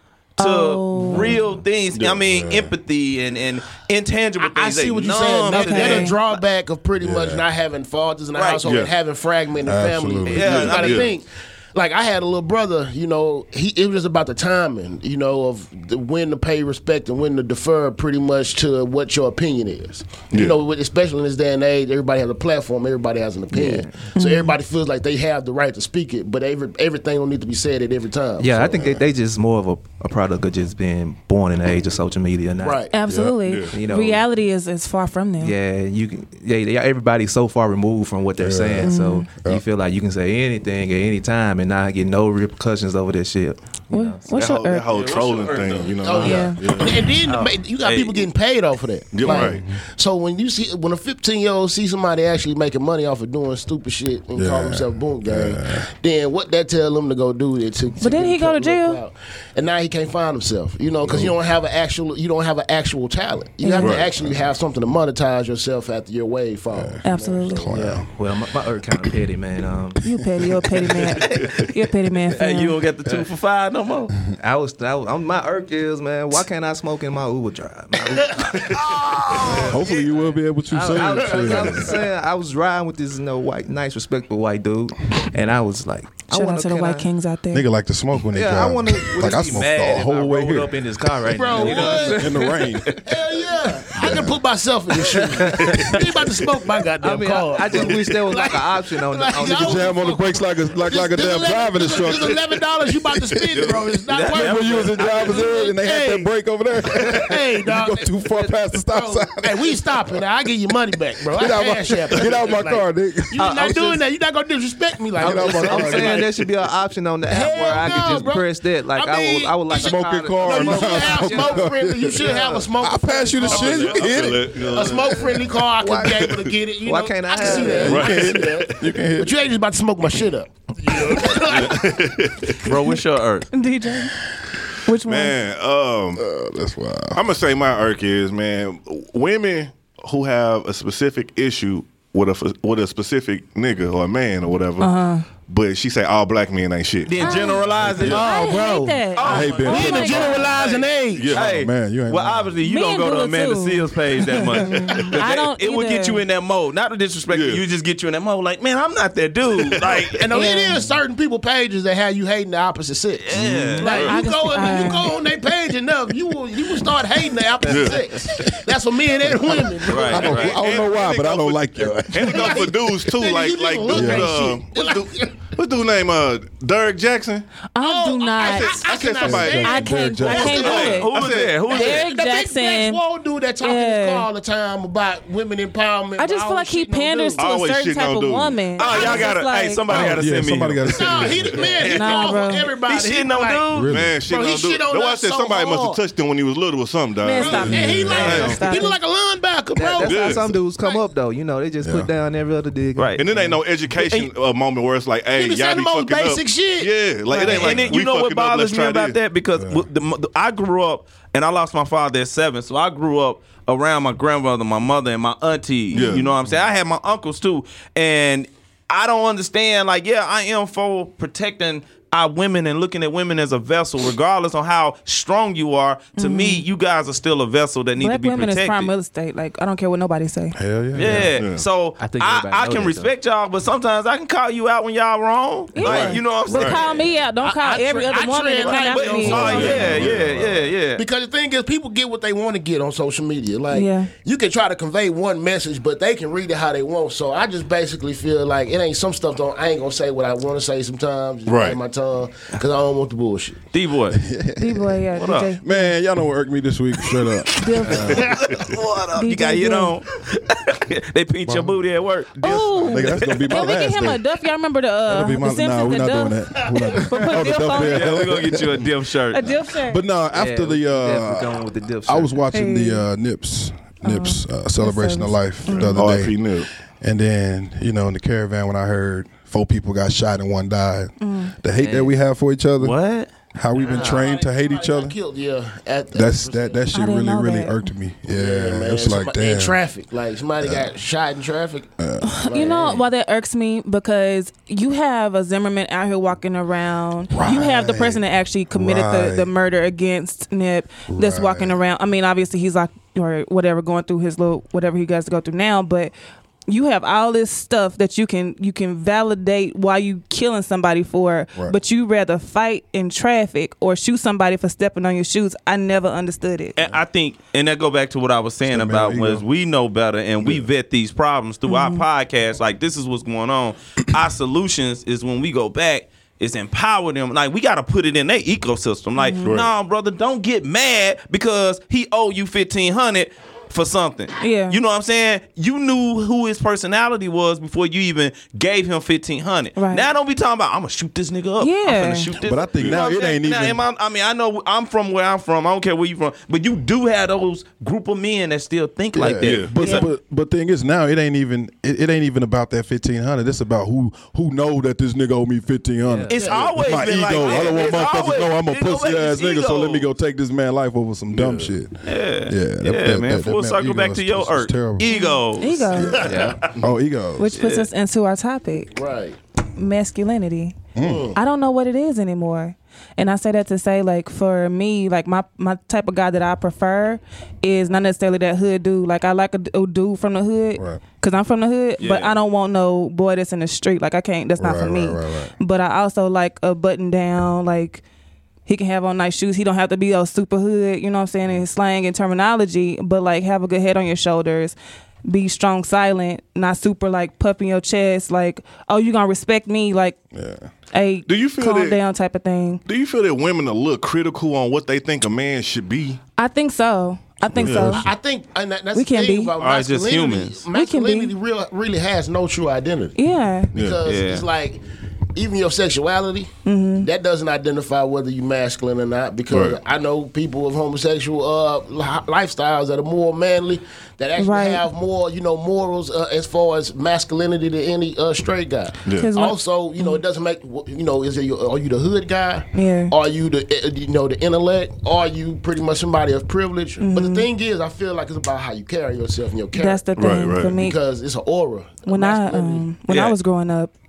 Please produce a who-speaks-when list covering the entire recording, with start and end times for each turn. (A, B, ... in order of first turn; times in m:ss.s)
0:00.4-0:01.4 A
0:00.4-0:06.4 B
0:01.9-0:02.3 C
0:02.3-0:02.7 D
0:04.4-0:28.8 E
0:05.5-0:06.2 A
0:07.0-0:07.4 D
0:08.3-0:08.6 B
0:08.6-0:08.9 C
0:09.6-0:10.8 D
0:10.3-0:11.1 B
0:10.5-0:11.1 C
0:20.3-0:20.6 C
0:23.5-0:23.9 F
0:24.2-0:24.6 A
0:28.4-0:32.8 F
0:32.6-0:32.9 E
0:32.9-0:35.6 A
0:33.1-0:33.4 D
0:33.4-0:33.7 C
0:33.7-0:34.2 F
0:35.4-0:44.3 F
0:38.4-0:39.6 D
0:38.8-0:39.3 A
0:43.9-0:44.9 A
0:44.3-0:47.1 C
0:44.9-0:45.9 B
0:46.0-1:07.9 E
0:46.2-0:46.6 A
0:47.3-0:47.6 F
0:47.8-0:48.3 B
0:49.1-0:49.6 C
0:49.4-0:49.8 D
0:54.4-0:55.9 D
0:58.0-0:59.0 A
1:01.0-1:01.4 D
1:03.6-1:04.0 A
1:03.8-1:04.2 C
1:04.2-1:04.4 D
1:06.7-1:08.1 D
1:07.0-1:07.7 A
1:07.7-1:10.0 F
1:10.0-1:12.8 A
1:12.4-1:14.2 B
1:14.4-1:20.1 F
1:18.4-1:19.7 E
1:19.5-1:22.0 D
1:20.7-1:27.1 F
1:26.3-1:27.7 A
1:27.5-1:30.8 D
1:28.3-1:32.7 F
1:31.3-1:32.5 E
1:31.5-1:32.9 D
1:33.0-1:46.3 E
1:34.0-1:34.4 D
1:35.1-1:36.2 F
1:37.0-1:40.1 F
1:39.4-1:50.2 D
1:43.5-1:45.6 B
1:46.8-1:56.3 E
1:51.2-1:53.6 D
1:53.4-1:54.0 F
1:55.2-1:56.3 D
1:55.2-2:02.7 F
1:57.3-2:12.0 E
1:59.7-2:04.7 D
2:03.5-2:05.5 C
2:03.6-2:03.9 B
2:05.8-2:06.3 F
2:06.8-2:08.1 F
2:07.6-2:09.4 D
2:07.9-2:08.8 C
2:11.1-2:12.8 C
2:12.6-2:13.5 B
2:13.5-2:14.2 A
2:14.8-2:15.4 A
2:15.0-2:16.2 C
2:16.2-2:17.2 D
2:17.1-2:24.9 C
2:24.8-2:25.2 A
2:25.5-2:28.2 C
2:27.1-2:28.3 B
2:27.2-2:30.5 A
2:28.0-2:31.4 E
2:29.2-2:40.3 B
2:29.2-2:30.5 D
2:31.1-2:31.5 C
2:31.4-2:32.5 D
2:32.6-2:36.2 A
2:34.8-2:35.2 C
2:37.3-2:37.6 C
2:39.6-2:40.0 C
2:40.1-2:50.6 E
2:40.3-2:40.8 A
2:43.2-2:44.2 B
2:43.4-2:44.1 C
2:43.8-2:45.1 A
2:47.6-2:48.1 C
2:49.2-2:52.7 D
2:49.9-2:50.8 B
2:50.1-2:57.5 C
2:52.2-2:55.4 E
2:53.9-2:54.4 D
2:57.8-2:58.9 A
2:57.8-3:01.1 E
2:58.4-3:01.6 C
2:59.2-3:00.7 D
2:59.6-3:01.1 A
3:00.4-3:02.1 B
3:01.6-3:07.4 E
3:01.7-3:03.0 A
3:03.6-3:04.3 A
3:06.2-3:10.2 A
3:07.4-3:09.1 C
3:08.8-3:10.9 B
3:08.8-3:09.3 E
3:09.9-3:11.6 D
3:10.8-3:13.7 E
3:11.6-3:11.9 C
3:11.8-3:12.3 B
3:11.9-3:12.7 A
3:12.8-3:13.9 B
3:13.7-3:14.2 D
3:13.8-3:18.8 C
3:14.2-3:16.0 E
3:17.2-3:19.0 A
3:17.4-3:21.0 E
3:17.6-3:18.4 D
3:19.8-3:23.6 F
3:20.0-3:20.5 C
3:21.8-3:22.1 D
3:23.0-3:23.2 B
3:23.2-3:29.2 C
3:24.0-3:24.3 B
3:25.4-3:28.0 E
3:27.3-3:27.7 A
3:27.4-3:48.9 B
3:29.6-3:29.9 D
3:35.9-3:36.3 A
3:35.9-3:36.3 C
3:46.2-3:46.6 A
3:48.0-3:50.6 A
3:50.6-3:51.3 D
3:51.0-3:57.0 B
3:51.1-3:51.6 C
3:52.0-3:53.1 F
3:55.7-3:59.9 A
3:55.8-3:56.8 C
3:57.4-4:00.4 E
3:58.6-4:01.0 B
3:59.3-4:00.5 C
3:59.6-4:00.3 D
4:01.0-4:13.6 E
4:03.7-4:04.1 A
4:11.5-4:11.8 C
4:13.7-4:14.2 B
4:14.1-4:15.1 D
4:14.6-4:15.9 A
4:15.1-4:15.5 B
4:15.6-4:18.3 D
4:17.6-4:18.3 A
4:18.0-4:18.6 E
4:18.2-4:23.5 B
4:19.2-4:20.0 A
4:21.4-4:21.8 D
4:22.4-4:28.2 A
4:22.8-4:24.2 D
4:25.1-4:28.9 D
4:27.8-4:29.5 B
4:29.3-4:30.0 A
4:29.8-4:36.5 D
4:30.3-4:32.4 F
4:32.5-4:33.0 A
4:34.0-4:36.1 A
4:35.7-4:36.7 C
4:37.0-4:43.0 D
4:41.2-4:41.5 A
4:41.7-4:42.2 F
4:42.8-4:43.3 B
4:43.5-4:45.2 D
4:43.8-4:46.8 E
4:43.9-4:44.2 F
4:46.1-4:49.8 D
4:46.9-4:47.8 A
4:48.3-4:51.9 E
4:50.6-4:50.9 D
4:52.0-4:52.7 D
4:52.2-5:06.1 A
4:52.4-4:53.0 E
4:57.3-4:59.5 D
5:01.1-5:01.7 D
5:06.7-5:16.8 A
5:16.8-5:50.1 B
5:18.7-5:19.4 D
5:21.7-5:22.0 A
5:29.2-5:29.5 A
5:29.4-5:29.7 C
5:34.4-5:34.8 A
5:39.8-5:40.1 A
5:41.6-5:42.3 A
5:42.4-5:43.8 D
5:42.8-5:43.1 C
5:49.2-6:05.1 D
5:49.4-5:49.7 C
5:49.8-5:50.1 A
5:56.0-5:56.4 F
5:56.3-6:00.1 B
5:56.3-5:56.8 E
6:01.3-6:01.7 C
6:02.0-6:06.7 B
6:05.1-6:06.3 A
6:06.0-6:06.6 E
6:06.0-6:07.6 D
6:06.2-6:06.6 F
6:07.4-6:09.0 A
6:07.6-6:07.9 B
6:08.9-6:09.4 E
6:09.8-6:10.8 A
6:11.0-6:11.3 D
6:11.0-6:11.4 E
6:11.4-6:28.0 A
6:20.8-6:21.0 D
6:22.0-6:22.4 B
6:24.6-6:25.5 D
6:28.7-6:40.2 A
6:40.3-6:40.7 D
6:40.9-6:42.8 A
6:41.3-6:42.0 C
6:42.9-6:46.2 C
6:46.4-6:48.1 A
6:47.6-6:48.1 D
6:47.6-6:47.9 C
6:47.9-6:53.2 E
6:49.0-6:49.5 A
6:49.6-6:50.6 B
6:50.7-6:51.3 A
6:53.2-6:53.7 A
6:53.7-6:54.8 E
6:53.8-6:54.0 C
6:54.0-6:54.5 B
6:55.4-7:22.9 E
6:56.6-6:57.1 A
6:59.5-6:59.8 C
7:04.4-7:04.8 A
7:09.1-7:09.3 C
7:09.1-7:10.2 A
7:12.7-7:13.1 A
7:17.0-7:17.5 A
7:19.7-7:21.0 A
7:20.2-7:20.8 C
7:22.1-7:23.9 A
7:23.1-7:23.4 B